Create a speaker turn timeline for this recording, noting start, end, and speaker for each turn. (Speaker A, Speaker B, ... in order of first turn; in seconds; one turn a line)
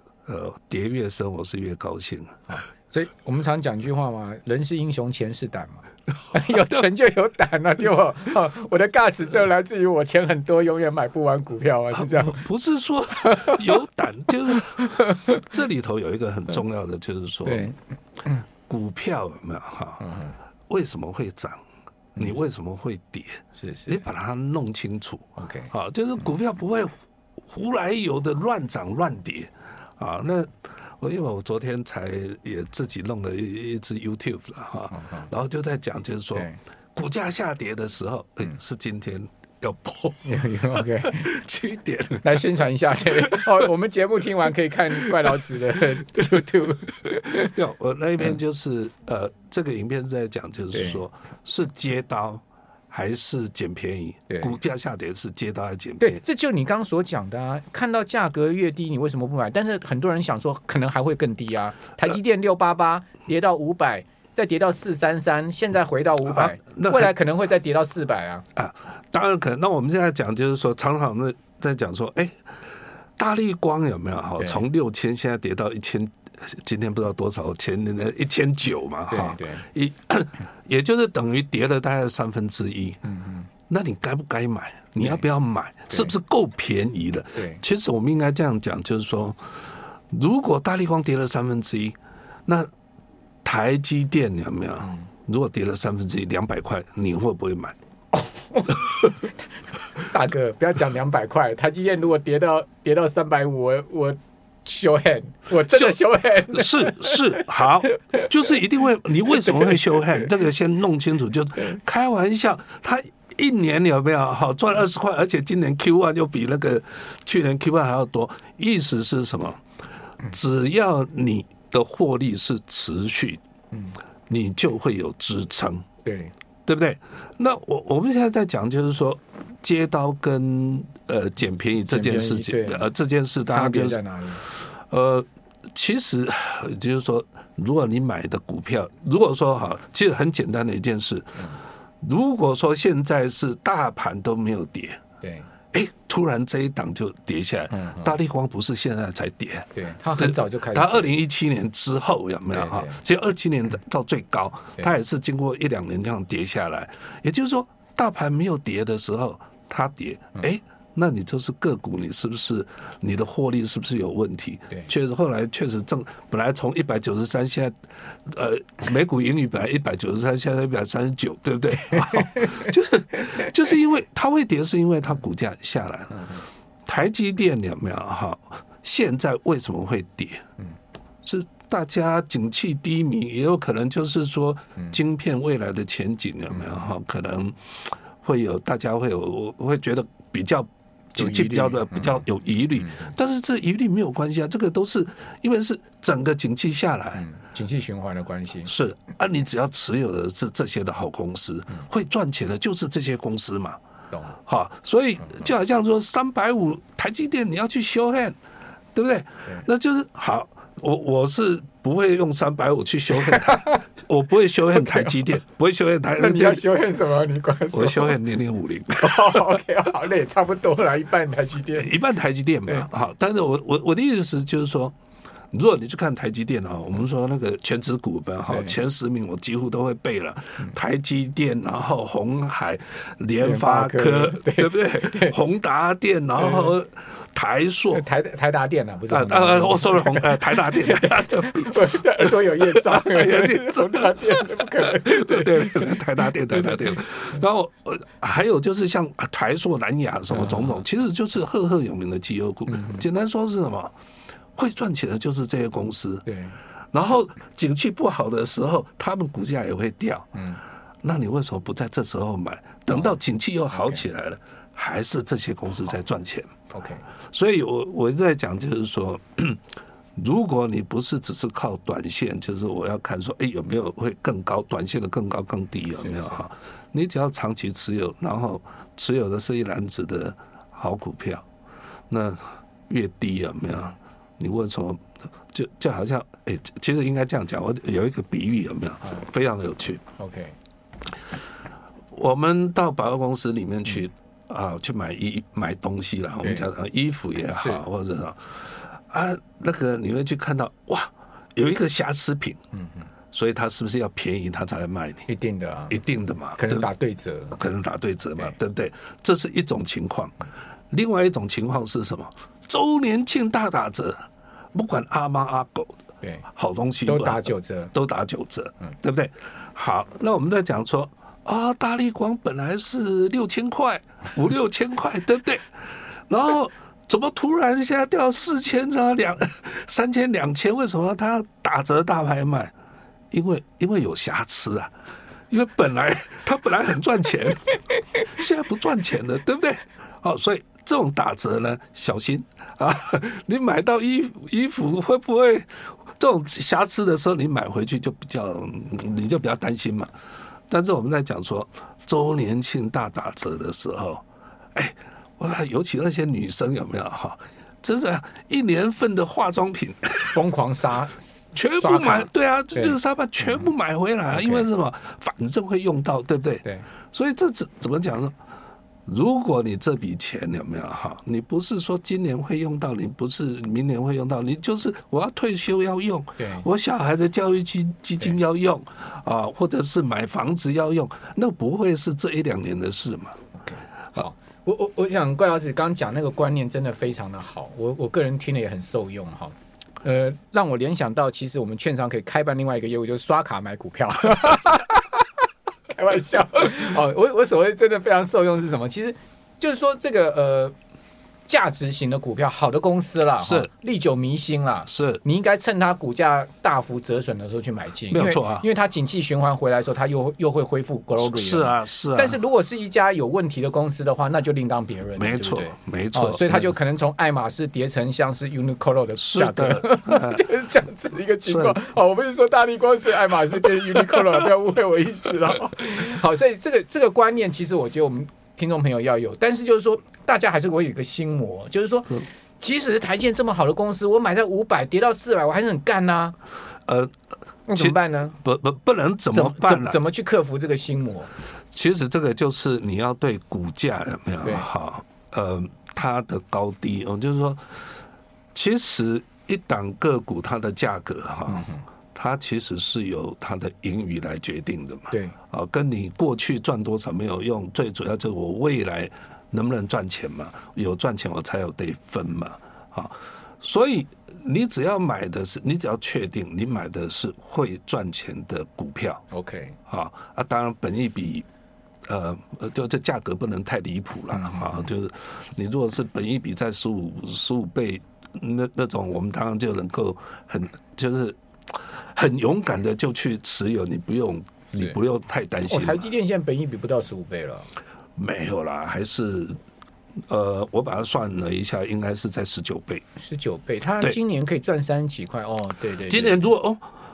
Speaker A: 0.3-2.4
Speaker B: 2.5-12.4
Speaker A: 6.5-6.8
Speaker A: 11.9-17.7
Speaker B: 13.2-13.7
Speaker B: 14.5-15.4
Speaker B: 17.4-17.8
Speaker A: 18.7-20.1
Speaker B: 20.0-20.4
Speaker A: 20.7-21.6
Speaker A: 22.2-42.4
Speaker B: 23.6-24.0
Speaker B: 25.4-25.7
Speaker B: 34.9-35.3
Speaker B: 40.2-41.3
Speaker B: 42.2-47.5
Speaker A: 43.1-43.7
Speaker A: 45.0-45.4
Speaker A: 46.0-56.2
Speaker B: 50.7-51.0
Speaker B: 54.3-54.5
Speaker B: 56.0-68.5
Speaker A: 66.2-67.1
Speaker A: 68.5-72.4
Speaker A: 73.2-83.0
Speaker B: 74.4-74.7
Speaker B: 79.1-79.7
Speaker B: 83.0-83.5
Speaker A: 83.7-89.5
Speaker B: 85.9-86.2
Speaker B: 87.4-87.6
Speaker A: 90.1-92.7
Speaker A: 93.4-97.8
Speaker B: 98.1-99.3
Speaker B: 100.0-108.3
Speaker A: 105.7-119.6
Speaker B: 109.3-110.2
Speaker A: 120.2-123.4
Speaker A: 124.3-125.9
Speaker B: 126.0-126.3
Speaker A: 126.7-141.4
Speaker B: 131.9-132.9
Speaker B: 133.5-134.4
Speaker A: 142.0-145.0
Speaker B: 145.2-145.5
Speaker A: 145.7-180.4
Speaker B: 147.7-148.1
Speaker B: 149.8-151.1
Speaker B: 152.5-153.0
Speaker B: 171.9-172.7
Speaker A: 181.2-197.2
Speaker B: 191.2-192.2
Speaker B: 197.2-198.7
Speaker A: 198.7-203.8
Speaker A: 204.5-208.4
Speaker A: 208.9-216.7
Speaker B: 213.1-213.8
Speaker B: 214.7-215.2
Speaker B: 216.2-218.2
Speaker A: 217.7-219.6
Speaker B: 219.0-222.0
Speaker A: 221.8-224.9
Speaker A: 225.5-238.0
Speaker B: 228.5-228.8
Speaker B: 233.4-235.4
Speaker B: 236.4-236.7
Speaker B: 237.9-246.8
Speaker A: 239.1-253.9
Speaker B: 250.3-250.8
Speaker B: 252.7-253.1
Speaker A: 254.6-256.3
Speaker B: 256.3-256.6
Speaker A: 256.9-260.4
Speaker B: 260.3-260.6
Speaker A: 261.0-266.5
Speaker B: 263.7-264.0
Speaker B: 266.7-267.1
Speaker A: 267.3-269.6
Speaker A: 270.2-281.4
Speaker B: 276.1-276.4
Speaker A: 282.1-290.1
Speaker B: 290.2-290.6
Speaker A: 292.1-302.6
Speaker B: 296.4-296.7
Speaker B: 297.6-297.8
Speaker B: 302.7-303.0
Speaker A: 303.3-305.3
Speaker B: 305.3-306.0
Speaker A: 305.9-306.9
Speaker B: 306.6-307.6
Speaker A: 307.6-310.4
Speaker A: 310.9-316.0
Speaker A: 316.5-332.7
Speaker B: 317.1-317.9
Speaker A: 333.3-334.9
Speaker A: 335.5-350.1
Speaker A: 350.7-354.2
Speaker A: 354.8-360.4
Speaker B: 360.3-363.0
Speaker A: 361.6-368.4
Speaker B: 364.3-364.7
Speaker A: 369.1-383.4
Speaker B: 376.4-376.7
Speaker B: 383.6-395.3
Speaker B: 395.9-400.8
Speaker B: 401.5-436.4
Speaker A: 403.4-403.7
Speaker A: 404.9-405.2
Speaker A: 408.1-408.7
Speaker A: 411.2-412.4
Speaker A: 415.2-416.7
Speaker A: 419.2-420.5
Speaker A: 421.4-421.8
Speaker A: 424.0-424.3
Speaker A: 436.9-437.1
Speaker B: 437.7-438.4
Speaker A: 437.7-440.0
Speaker B: 439.3-441.3
Speaker A: 441.7-447.8
Speaker B: 444.4-444.7
Speaker A: 448.5-469.2
Speaker B: 451.5-451.8
Speaker B: 469.3-469.8
Speaker A: 469.9-471.5
Speaker A: 472.1-486.1
Speaker B: 474.3-474.9
Speaker B: 485.7-487.7
Speaker A: 488.2-489.6
Speaker A: 490.3-493.1
Speaker B: 493.2-496.5
Speaker A: 496.1-496.8